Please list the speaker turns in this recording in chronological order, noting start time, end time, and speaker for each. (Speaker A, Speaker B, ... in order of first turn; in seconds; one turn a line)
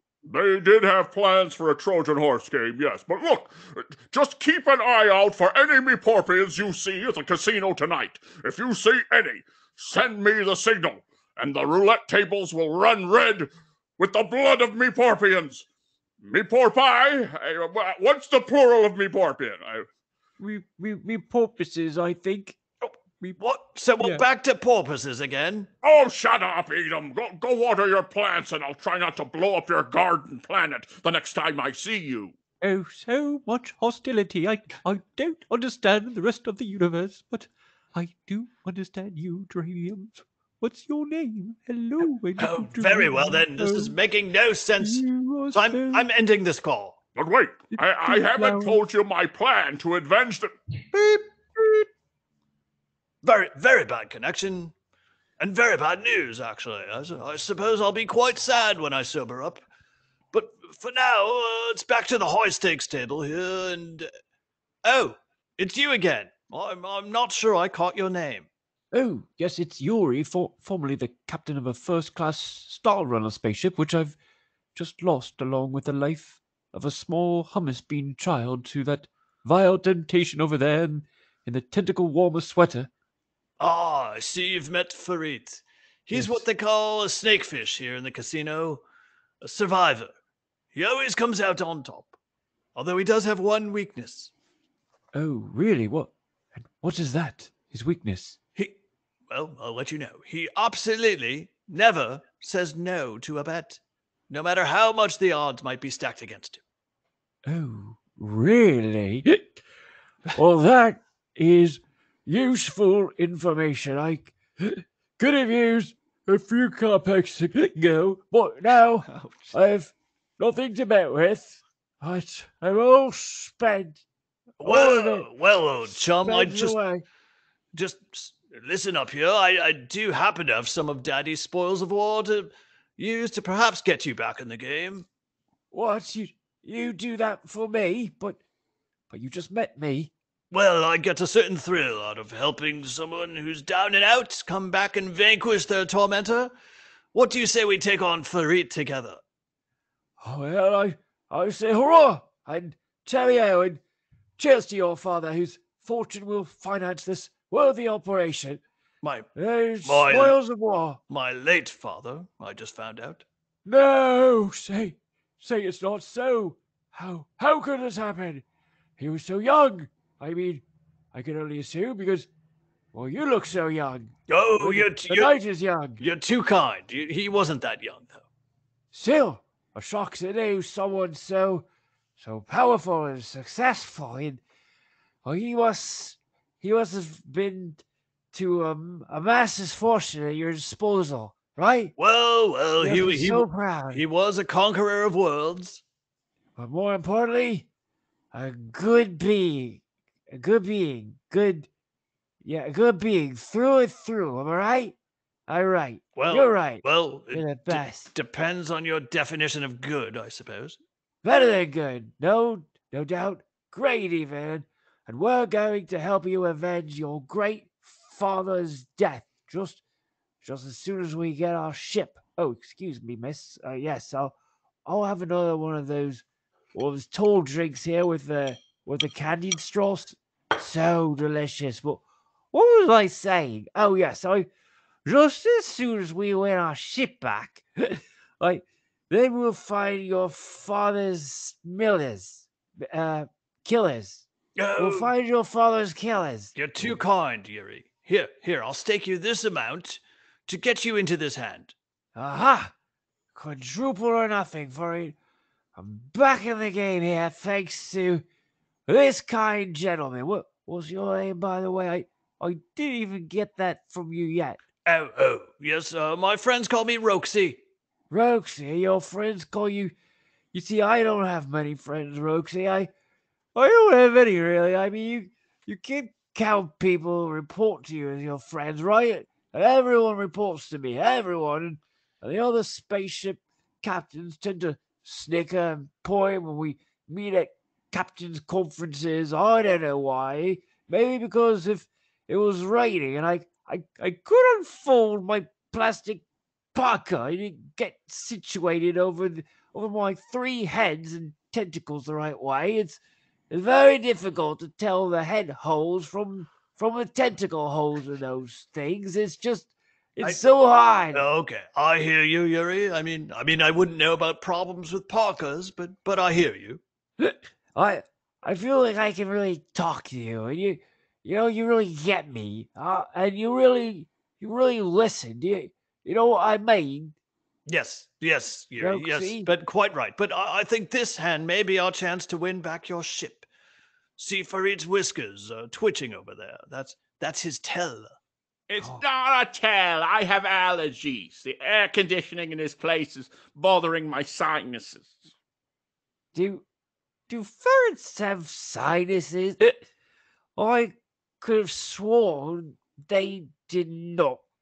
Speaker A: 0.2-15.7
Speaker A: 16.2-19.9
Speaker B: 20.4-22.6
Speaker C: 22.8-25.7
Speaker B: 24.0-24.2
Speaker A: 25.8-32.4
Speaker B: 32.6-44.0
Speaker C: 42.4-47.0
Speaker B: 44.8-46.1
Speaker A: 47.2-50.5
Speaker B: 47.7-48.8
Speaker C: 50.9-51.6
Speaker C: 53.2-54.7
Speaker C: 55.4-59.6
Speaker C: 60.3-64.1
Speaker C: 64.8-68.5
Speaker B: 68.9-74.2
Speaker B: 74.8-82.9
Speaker C: 83.6-88.8
Speaker B: 86.2-86.4
Speaker C: 89.4-90.1
Speaker C: 90.7-92.2
Speaker C: 92.8-94.3
Speaker B: 95.1-98.4
Speaker C: 99.3-106.6
Speaker B: 107.5-109.6
Speaker B: 110.3-124.0
Speaker C: 119.1-119.5
Speaker C: 124.6-126.8
Speaker B: 124.6-125.3
Speaker B: 125.9-127.0
Speaker C: 127.7-135.1
Speaker B: 135.7-138.4
Speaker B: 139.1-140.1
Speaker C: 140.5-146.5
Speaker C: 147.1-149.2
Speaker B: 150.2-153.8
Speaker B: 154.4-158.6
Speaker C: 159.0-159.3
Speaker B: 159.4-161.0
Speaker C: 159.8-160.4
Speaker C: 161.1-163.2
Speaker B: 163.7-168.4
Speaker B: 169.0-172.3
Speaker B: 172.9-176.0
Speaker C: 174.3-175.3
Speaker C: 176.0-178.2
Speaker B: 178.9-181.7
Speaker B: 182.2-184.4
Speaker B: 185.2-187.8
Speaker B: 188.3-191.9
Speaker C: 192.0-195.8
Speaker B: 192.8-194.0
Speaker B: 196.6-197.7
Speaker B: 198.3-201.7
Speaker B: 202.4-205.0
Speaker B: 205.5-208.1
Speaker C: 206.2-210.8
Speaker B: 211.2-219.8
Speaker B: 220.4-224.3
Speaker B: 224.9-232.0
Speaker B: 232.5-234.5
Speaker B: 235.1-244.2
Speaker C: 244.6-245.1
Speaker B: 244.8-246.9
Speaker C: 246.6-251.8
Speaker B: 252.2-252.7
Speaker B: 253.3-255.2
Speaker B: 255.8-258.2
Speaker B: 258.9-264.6
Speaker C: 264.9-267.6
Speaker B: 268.1-269.9
Speaker B: 270.5-272.9
Speaker B: 273.6-311.2
Speaker C: 311.1-316.8
Speaker B: 317.2-327.1
Speaker C: 327.7-333.5
Speaker B: 328.8-329.5
Speaker C: 334.2-338.1
Speaker D: 338.7-345.3
Speaker B: 346.3-346.6
Speaker B: 347.3-349.8
Speaker B: 350.6-354.4